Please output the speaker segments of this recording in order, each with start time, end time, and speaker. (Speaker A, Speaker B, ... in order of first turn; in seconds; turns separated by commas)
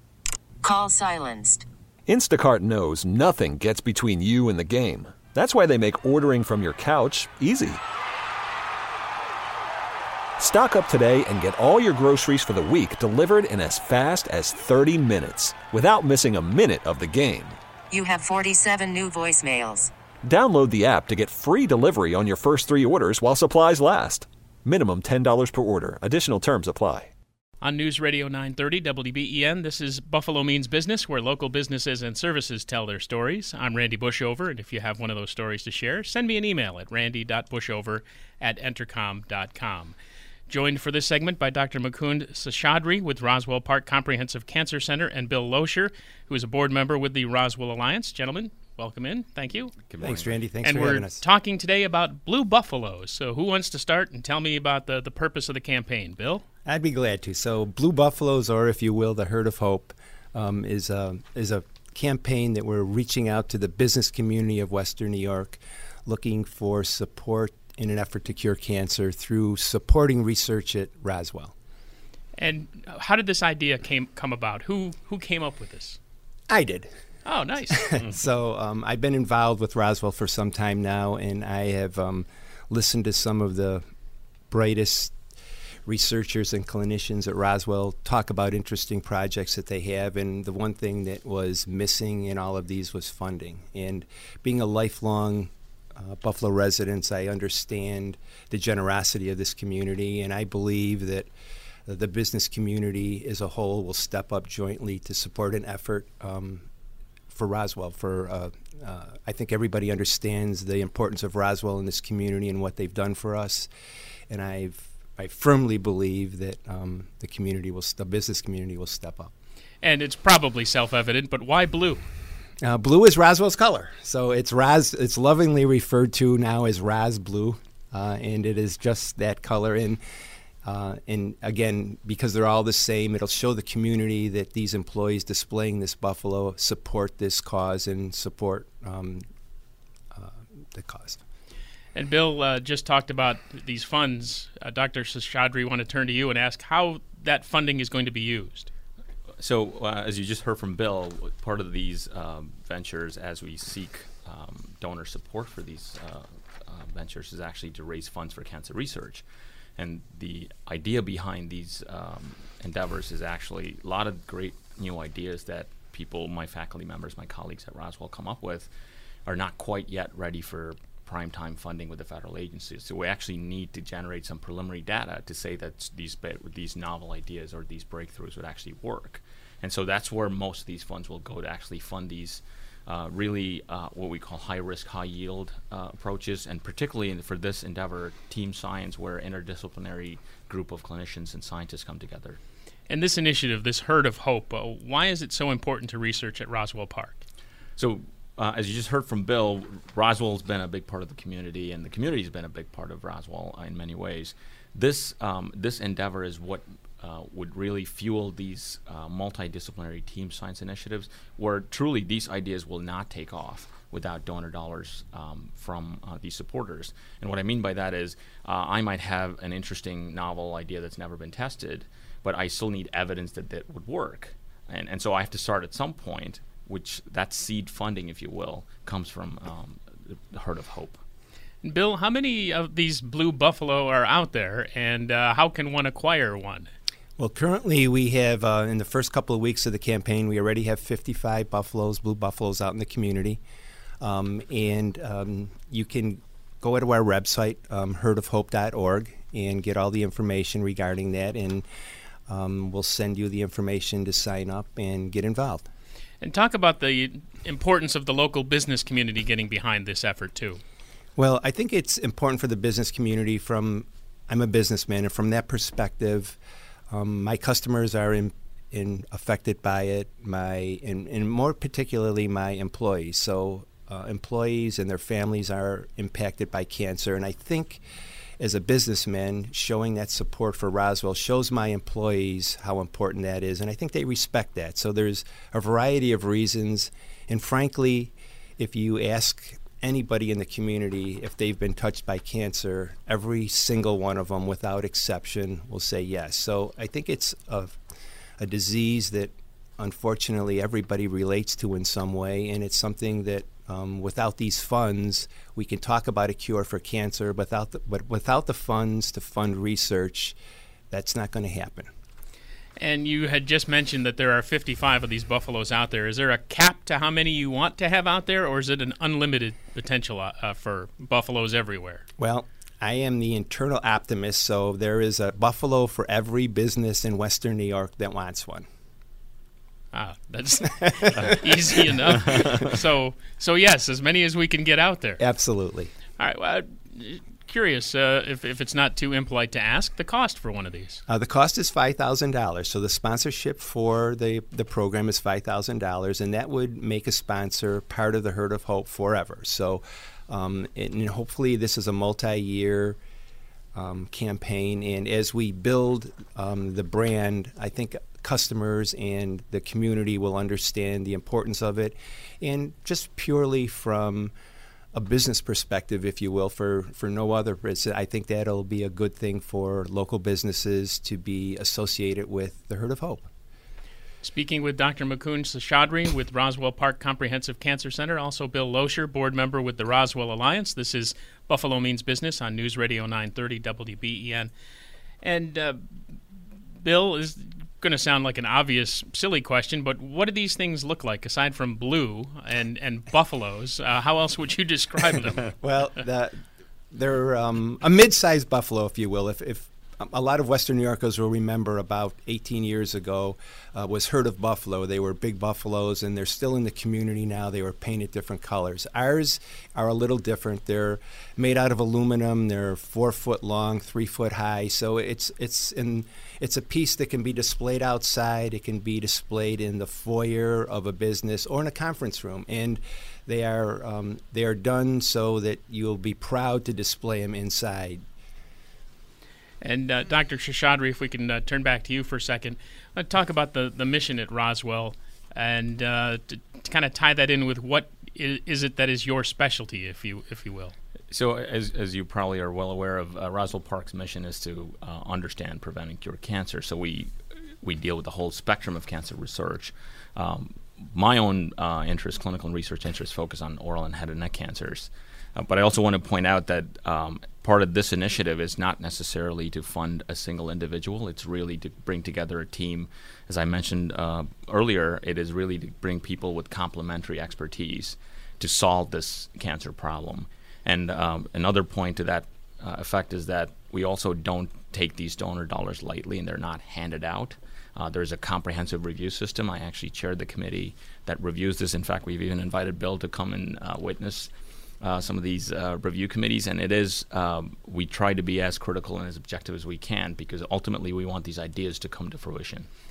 Speaker A: 0.6-1.7, Speaker B: 2.1-7.8, Speaker B: 10.4-17.6, Speaker A: 18.0-19.9, Speaker B: 20.2-27.1, Speaker C: 27.6-40.0, Speaker C: 40.5-49.7, Speaker D: 49.9-50.4, Speaker E: 50.0-51.2, Speaker C: 50.6-56.4, Speaker E: 56.6-71.5, Speaker C: 72.4-76.0, Speaker E: 76.5-76.9, Speaker C: 77.2-78.0, Speaker E: 77.7-83.8, Speaker E: 84.5-85.1, Speaker E: 85.8-101.3, Speaker E: 101.9-106.7, Speaker E: 107.3-113.7, Speaker E: 114.3-119.3, Speaker C: 119.8-122.0, Speaker E: 122.6-130.0, Speaker E: 130.6-139.2, Speaker E: 140.1-141.2, Speaker C: 141.9-148.7, Speaker D: 149.4-159.2, Speaker D: 159.8-168.7, Speaker D: 169.2-192.4, Speaker C: 192.9-197.2, Speaker D: 197.8-231.0, Speaker C: 231.6-236.7, Speaker E: 237.2-243.4, Speaker E: 244.0-251.6, Speaker E: 252.3-255.7, Speaker C: 256.2-260.6, Speaker E: 261.1-266.4, Speaker E: 266.9-277.8, Speaker E: 278.4-297.8, Speaker E: 298.4-310.4, Speaker E: 310.9-311.9, Speaker C: 312.8-322.0, Speaker E: 322.2-328.6, Speaker C: 329.9-335.2, Speaker E: 331.0-331.3, Speaker E: 335.2-335.9, Speaker C: 336.2-341.0, Speaker E: 341.1-353.0, Speaker E: 353.7-364.3, Speaker E: 364.9-373.3, Speaker C: 374.2-384.5, Speaker C: 385.2-385.8, Speaker C: 386.8-395.5, Speaker E: 395.6-396.4, Speaker E: 396.9-428.0, Speaker C: 429.6-440.7, Speaker D: 441.1-492.7